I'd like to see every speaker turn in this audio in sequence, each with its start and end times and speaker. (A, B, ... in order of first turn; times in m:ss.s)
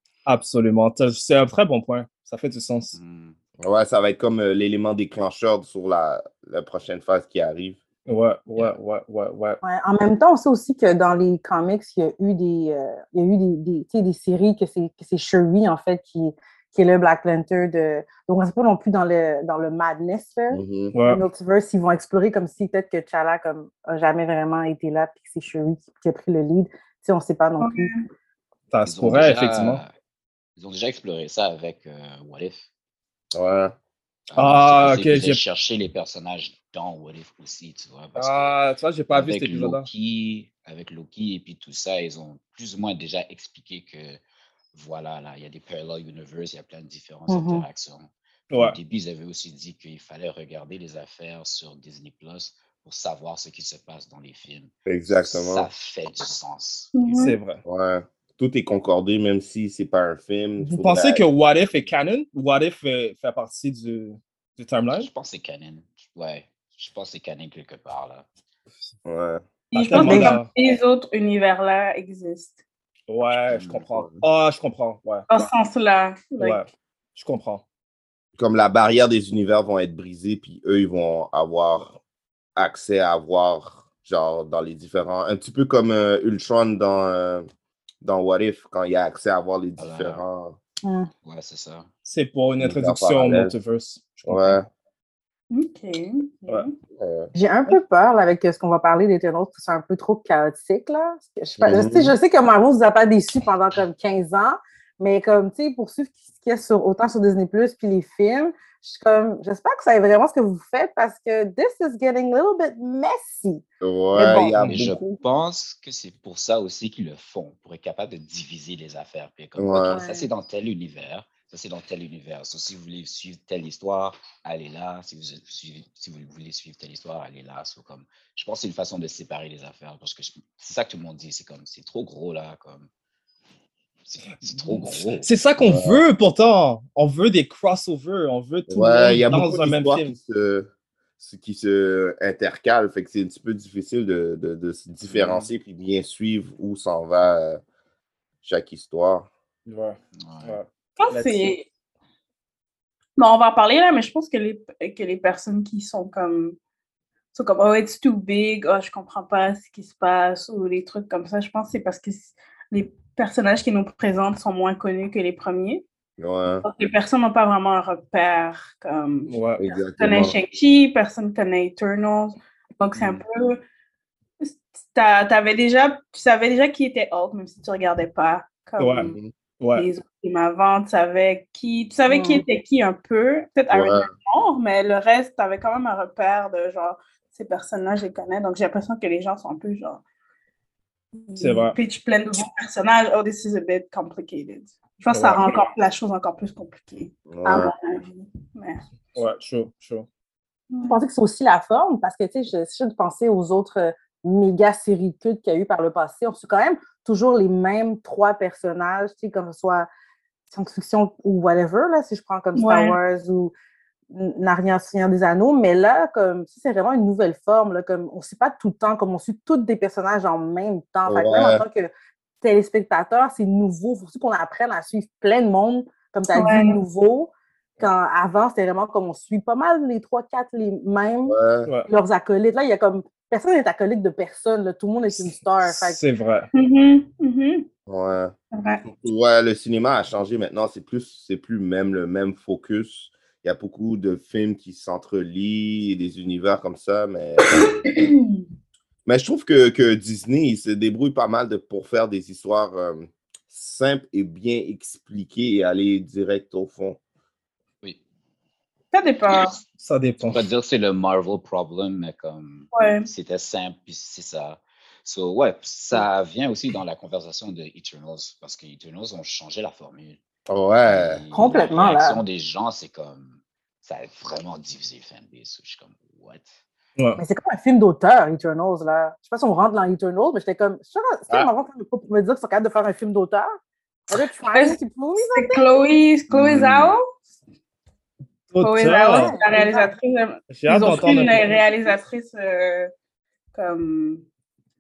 0:00.3-0:03.0 A
0:02.9-0:03.4 B
0:03.6-0:07.8 C
0:08.1-0:09.6 A
0:09.6-0:27.9 D
0:20.5-0:21.0 C
0:20.9-0:21.2 A
0:27.6-0:28.1 E
0:28.7-0:29.8 A
0:28.8-0:29.9 B
0:30.6-0:32.7 B
0:33.3-0:33.7 C
0:34.3-0:38.6 B
0:34.4-0:35.4 A
0:38.2-0:39.9 A
0:39.1-0:44.2 B
0:44.7-0:57.4 B
0:47.3-0:47.6 D
0:48.5-0:48.8 A
0:54.9-0:55.7 C
0:57.0-0:57.4 E
0:57.2-0:57.6 A
0:57.6-1:01.2 C
1:00.6-1:05.1 A
1:04.9-1:08.2 B
1:09.1-1:09.4 C
1:09.7-1:12.6 E
1:09.8-1:10.5 A
1:10.0-1:10.3 D
1:13.1-1:15.3 A
1:13.2-1:13.9 B
1:14.0-1:14.2 C
1:15.3-1:16.6 E
1:16.4-1:17.6 A
1:18.4-1:22.0 C
1:22.6-1:27.5 C
1:28.0-1:30.6 C
1:29.8-1:30.2 B
1:30.8-1:31.1 D
1:31.2-1:31.9 B
1:32.0-1:34.6 A
1:32.6-1:33.5 C
1:34.3-1:34.7 C
1:35.5-1:36.7 E
1:37.0-1:37.3 C
1:37.4-1:53.6 D
1:41.6-1:42.1 C
1:53.8-1:55.2 C
1:54.1-1:54.6 D
1:54.6-2:12.9 B
1:59.6-2:00.0 C
1:59.9-2:00.2 D
2:14.0-2:15.3 B
2:14.5-2:20.2 A
2:15.6-2:16.0 C
2:18.7-2:20.7 C
2:21.2-2:27.6 C
2:25.1-2:25.5 B
2:28.4-2:29.3 C
2:29.7-2:31.5 A
2:30.2-2:30.6 B
2:31.0-2:31.7 E
2:33.2-2:36.6 E
2:37.3-2:45.8 E
2:46.2-2:46.6 C
2:46.6-2:53.6 E
2:49.3-2:49.6 A
2:49.6-2:50.3 C
2:53.0-2:53.2 C
2:54.4-2:59.2 E
2:58.8-2:59.9 A
2:59.1-2:59.3 C
2:59.8-3:10.0 E
3:02.1-3:02.4 D
3:03.7-3:04.1 C
3:11.2-3:18.8 E
3:11.4-3:11.8 A
3:15.1-3:15.5 A
3:17.3-3:17.7 C
3:19.2-3:20.1 A
3:20.7-3:21.0 E
3:20.9-3:29.9 D
3:30.5-3:33.5 D
3:32.6-3:33.0 E
3:34.1-3:41.9 D
3:41.1-3:41.6 C
3:42.4-3:51.4 D
3:46.3-3:46.8 E
3:51.3-3:51.7 C
3:51.9-3:56.0 D
3:55.6-3:56.5 A
3:56.5-3:57.7 E
3:57.9-4:07.9 C
3:58.5-3:58.8 E
4:07.5-4:08.4 E
4:09.1-4:17.0 C
4:18.9-4:19.6 E
4:19.8-4:20.4 A
4:20.3-4:30.2 B
4:22.8-4:23.1 E
4:30.5-4:31.2 C
4:30.9-4:36.6 B
4:31.3-4:32.2 D
4:37.2-4:43.5 D
4:44.1-4:45.7 D
4:45.3-4:47.0 E
4:46.3-4:47.0 C
4:48.5-4:49.4 A
4:48.6-4:52.9 E
4:49.1-4:50.0 D
4:50.5-4:51.6 A
4:53.5-4:54.2 E